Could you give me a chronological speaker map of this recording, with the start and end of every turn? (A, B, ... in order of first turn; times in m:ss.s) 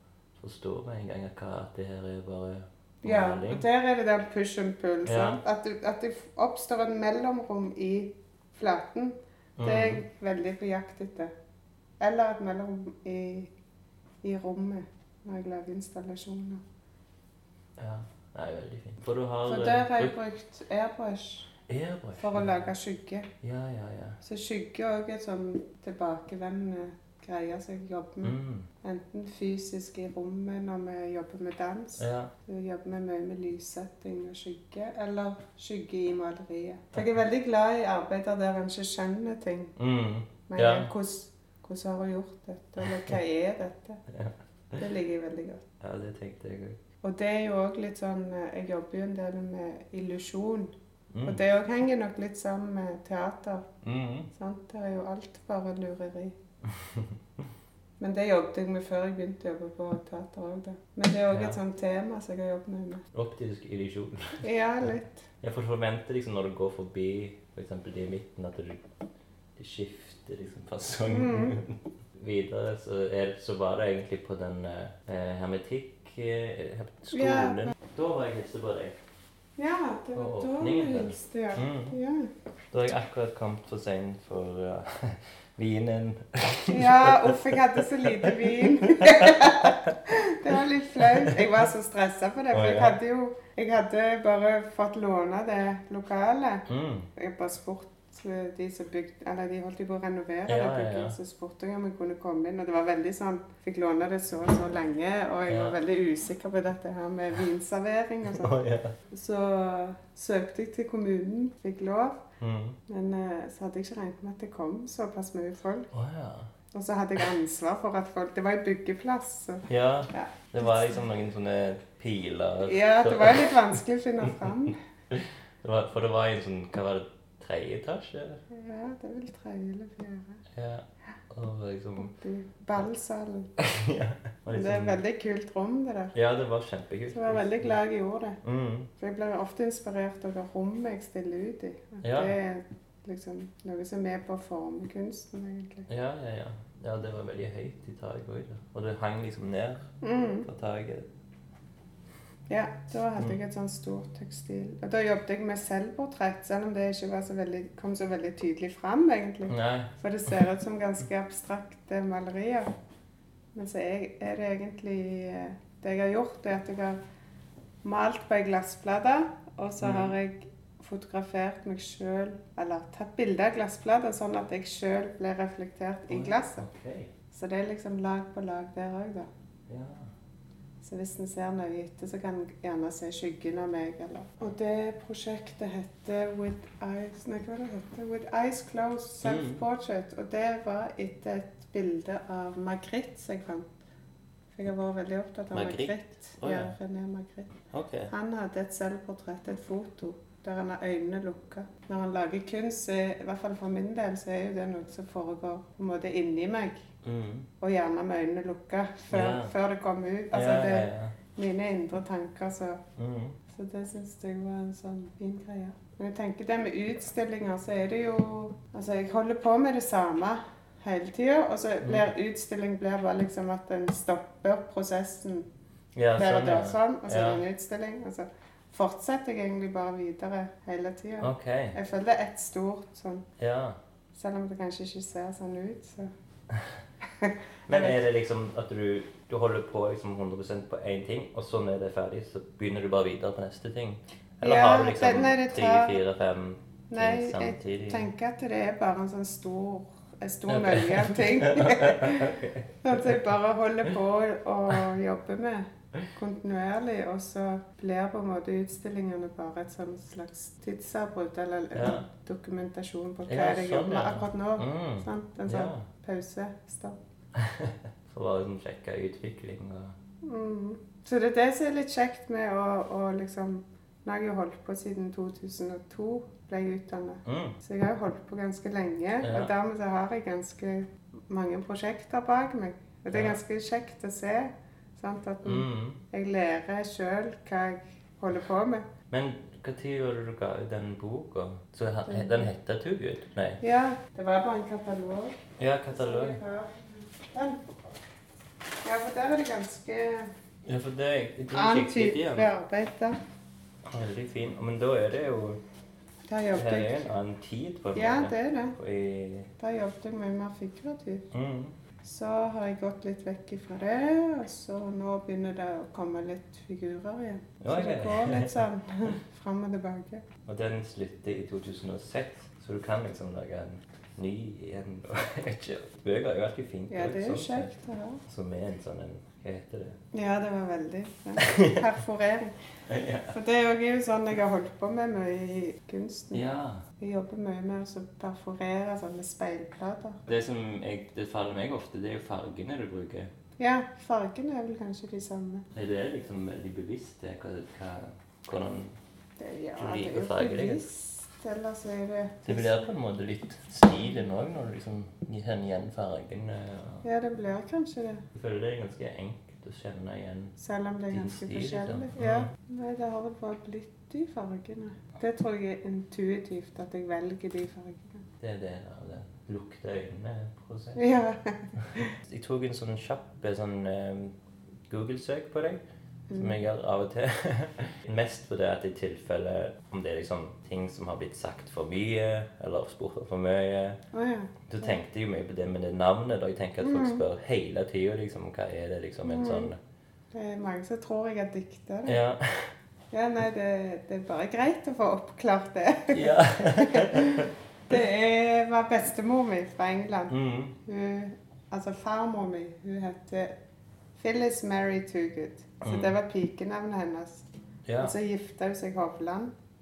0:00.4-0:03.7 A
0:03.0-0:11.3 B
0:05.1-0:05.4 A
0:09.6-0:10.0 A
0:12.0-0:13.5 B
0:14.2-0:16.6 B
0:17.8-0:20.2 A
0:19.4-0:21.5 B
0:21.7-0:22.7 A
0:22.2-0:23.3 B
0:23.4-0:24.2 A
0:24.2-0:39.8 B
0:28.2-0:28.7 A
0:32.0-0:32.3 A
0:39.8-0:40.9 A
0:40.5-0:44.0 B
0:44.1-0:44.8 A
0:44.8-0:45.6 B
0:45.8-0:46.8 A
0:47.0-0:53.7 B
0:51.1-0:51.4 A
0:53.8-0:54.3 A
0:54.4-0:56.4 B
0:58.0-1:03.0 B
1:01.3-1:01.6 A
1:03.1-1:04.4 A
1:04.4-1:05.2 B
1:05.4-1:08.8 A
1:09.6-1:19.0 A
1:11.1-1:11.6 B
1:17.1-1:17.7 B
1:19.6-1:22.3 B
1:20.2-1:22.0 A
1:22.7-1:30.0 A
1:26.7-1:48.5 B
1:31.0-1:31.5 A
1:32.5-1:33.0 A
1:36.7-1:37.1 A
1:40.5-1:41.2 A
1:45.5-1:45.8 A
1:48.3-1:49.0 A
1:49.1-1:52.2 B
1:52.4-1:52.8 A
1:52.9-1:55.9 B
1:55.9-1:56.5 A
1:56.7-2:01.0 B
1:59.7-2:03.8 A
2:02.7-2:04.8 B
2:05.1-2:08.4 A
2:08.5-2:10.4 B
2:10.5-2:12.1 A
2:12.0-2:13.5 B
2:13.6-2:15.0 A
2:14.5-2:16.1 B
2:16.1-2:17.8 A
2:17.1-2:18.4 B
2:18.4-2:18.9 A
2:19.0-2:25.9 B
2:22.0-2:22.3 A
2:25.9-2:29.9 A
2:30.0-2:30.5 B
2:30.4-2:31.1 A
2:32.5-2:42.7 B
2:39.5-2:39.9 A
2:43.5-2:47.0 B
2:47.8-2:56.7 B
2:49.8-2:50.2 A
2:56.1-2:57.1 A
2:57.3-2:59.3 B
2:59.7-3:00.1 A
3:00.8-3:13.7 B
3:09.2-3:09.6 A
3:14.6-3:17.5 B
3:15.5-3:16.8 A
3:17.7-3:18.1 A
3:18.1-3:26.9 B
3:27.0-3:27.5 A
3:27.6-3:32.8 B
3:29.1-3:29.6 A
3:30.3-3:31.2 A
3:33.0-3:33.4 A
3:33.5-3:45.5 B
3:46.0-3:47.4 A
3:46.2-3:53.3 B
3:51.2-3:51.8 A
3:53.4-3:53.8 A
3:54.1-3:56.1 B
3:57.2-3:58.0 B
3:57.7-4:08.1 A
4:04.4-4:06.0 B
4:06.9-4:27.0 B
4:10.5-4:13.2 A
4:21.7-4:22.1 A
4:23.3-4:25.9 A
4:27.4-4:30.0 A
4:30.2-4:48.9 B
4:37.2-4:37.6 A
4:39.2-4:39.5 A
4:43.1-4:43.4 A
4:45.4-4:46.0 A
4:49.1-4:53.6 A
4:52.1-4:52.5 B
4:53.6-4:55.4 B
4:55.6-4:56.4 A
4:55.9-4:57.7 B
4:58.8-5:00.3 B
5:00.6-5:02.5 A
5:01.5-5:03.2 B
5:03.9-5:05.6 A
5:06.3-5:07.1 B
5:06.5-5:09.5 A
5:07.9-5:08.8 B
5:09.6-5:11.3 B
5:11.3-5:11.7 A
5:12.0-5:20.2 B
5:17.6-5:18.6 A
5:20.5-5:27.7 A
5:26.9-5:28.2 B
5:28.2-5:30.0 A
5:30.1-5:32.6 B
5:31.4-5:31.8 A
5:32.9-5:33.4 A
5:33.3-5:36.4 B
5:36.3-5:36.8 A
5:37.0-5:40.2 B
5:40.3-5:43.3 A
5:43.6-5:45.7 B
5:45.7-5:49.0 A
5:49.4-5:52.9 B
5:49.8-5:50.8 A
5:52.4-5:57.0 A
5:57.0-5:58.2 B
5:58.4-6:00.6 A
6:00.6-6:08.2 B
6:01.1-6:02.5 A
6:08.4-6:11.1 A
6:11.0-6:12.1 B
6:11.8-6:14.4 A
6:14.9-6:15.8 A
6:16.3-6:16.6 B
6:16.4-6:24.0 A
6:24.1-6:25.0 B
6:24.7-6:29.8 A
6:26.8-6:27.2 B
6:29.2-6:29.7 B
6:30.3-6:32.2 B
6:32.1-6:32.7 A
6:33.1-6:43.6 B
6:36.1-6:37.5 A
6:40.3-6:40.8 A
6:44.2-6:47.5 B
6:45.8-6:46.1 A
6:47.9-6:48.1 A
6:48.0-6:49.5 B